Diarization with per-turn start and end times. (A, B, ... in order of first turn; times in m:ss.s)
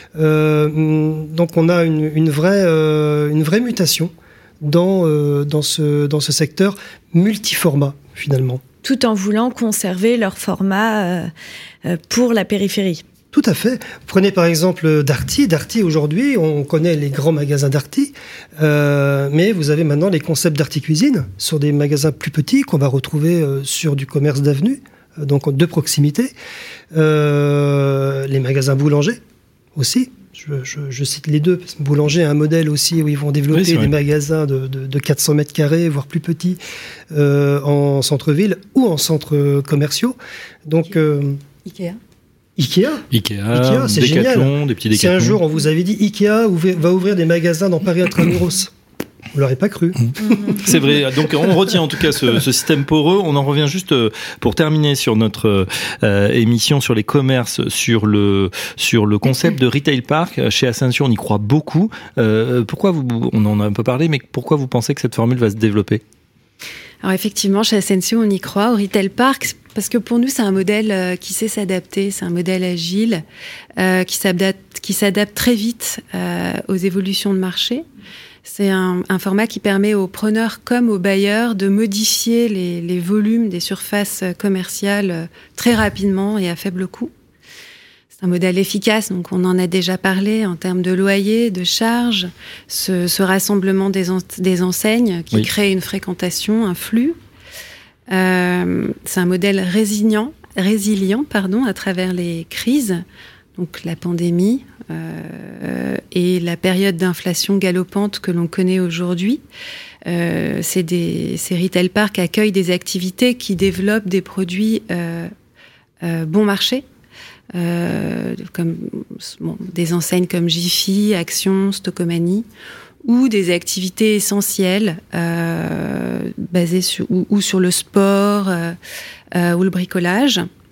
0:00.2-0:08.6 A
0:08.8-0:11.3 B
0:11.8-0:13.0 B
0:13.3-0:26.3 A
0:26.9-0:29.2 A
0:29.8-0:36.6 A
0:33.5-0:33.9 C
0:37.1-0:41.4 A
0:41.7-0:42.0 D
0:42.6-0:48.7 A
0:43.1-0:45.4 C
0:49.3-0:50.7 A
0:50.6-1:06.0 C
1:07.0-1:13.2 D
1:13.8-1:17.8 D
1:18.4-1:27.1 D
1:28.2-1:37.2 D
1:38.1-1:43.0 D
1:43.6-1:49.4 D
1:50.1-1:55.3 D
1:56.0-1:56.8 D
1:57.5-2:02.5 D
2:03.0-2:08.8 D
2:09.3-2:10.5 D